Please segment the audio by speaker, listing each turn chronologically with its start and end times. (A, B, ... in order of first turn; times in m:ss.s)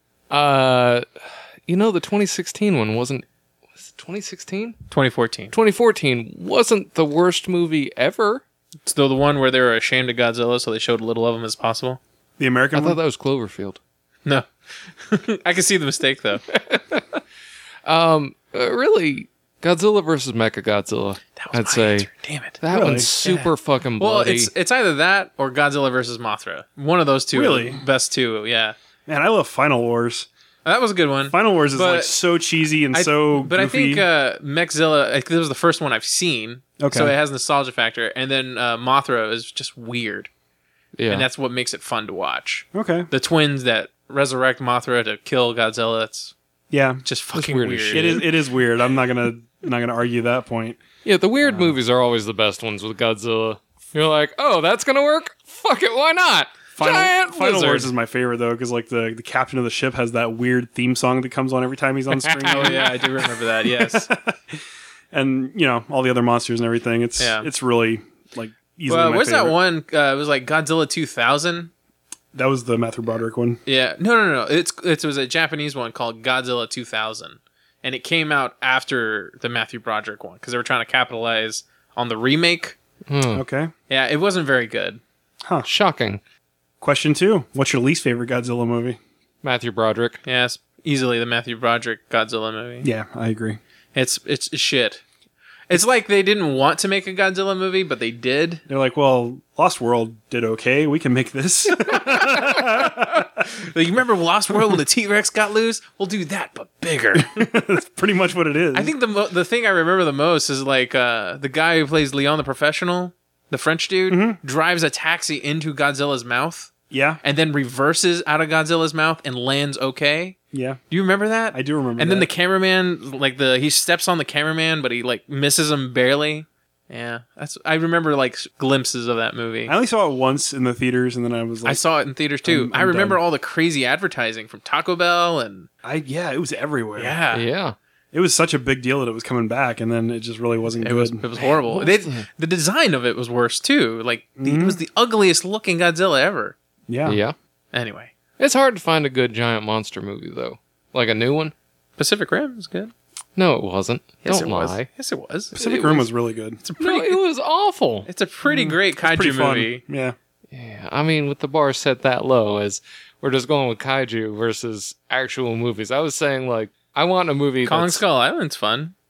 0:00.3-0:01.0 A
0:01.7-0:03.2 A
0:03.8-0:04.8 A
0:04.9-0:05.5 B
0:05.5-0:08.4 A
0:08.8-0:12.0 B
0:12.4-0:13.0 C
0:12.7-0:13.8 A
0:15.0-0:16.4 B
0:16.7-0:17.0 A
0:17.8-0:22.1 A
0:21.4-0:22.6 B
0:22.6-0:24.5 A
0:22.7-0:23.1 C
0:23.2-0:28.8 B
0:27.3-0:27.8 C
0:29.1-0:30.3 C
0:30.6-0:32.2 B
0:31.2-0:34.0 C
0:32.9-0:40.3 B
0:36.8-0:37.1 C
0:41.0-0:41.2 A
0:41.1-0:46.3 B
0:42.7-0:43.1 C
0:46.7-0:47.0 C
0:47.0-0:48.3 B
0:47.3-0:48.2 A
0:47.9-0:50.8 C
0:51.0-0:57.9 A
0:51.4-0:51.8 C
0:56.8-1:04.6 C
1:02.2-1:04.1 B
1:05.1-1:09.6 C
1:07.2-1:07.5 B
1:08.9-1:11.7 B
1:12.3-1:13.6 C
1:13.6-1:22.8 B
1:23.1-1:23.4 A
1:23.3-1:23.7 C
1:23.9-1:25.0 B
1:25.6-1:26.2 A
1:26.8-1:29.0 C
1:29.4-1:30.2 A
1:30.2-1:32.9 B
1:32.8-1:33.6 C
1:33.9-1:35.0 B
1:35.7-1:38.6 B
1:38.7-1:43.4 C
1:41.8-1:47.3 B
1:47.1-1:48.9 C
1:48.7-1:56.7 B
1:54.1-1:54.4 C
1:56.9-1:57.2 C
1:57.2-2:00.4 B
2:00.5-2:00.8 C
2:00.9-2:09.7 B
2:01.5-2:02.3 C
2:09.7-2:11.8 C
2:11.6-2:15.7 B
2:12.4-2:13.2 C
2:15.8-2:17.2 C
2:17.0-2:17.4 B
2:17.3-2:17.7 A
2:18.1-2:21.2 C
2:20.8-2:26.5 B
2:21.6-2:22.2 A
2:24.4-2:24.8 C
2:26.9-2:27.2 C
2:27.0-2:27.3 A
2:27.7-2:28.1 B
2:28.4-2:31.5 A
2:32.0-2:32.9 B
2:33.4-2:34.8 A
2:34.2-2:35.5 B
2:35.5-2:36.6 C
2:35.6-2:36.1 A
2:36.6-2:37.2 B
2:36.8-2:38.1 A
2:38.0-2:39.8 B
2:38.4-2:40.1 C
2:40.5-2:48.0 A
2:47.6-2:48.9 B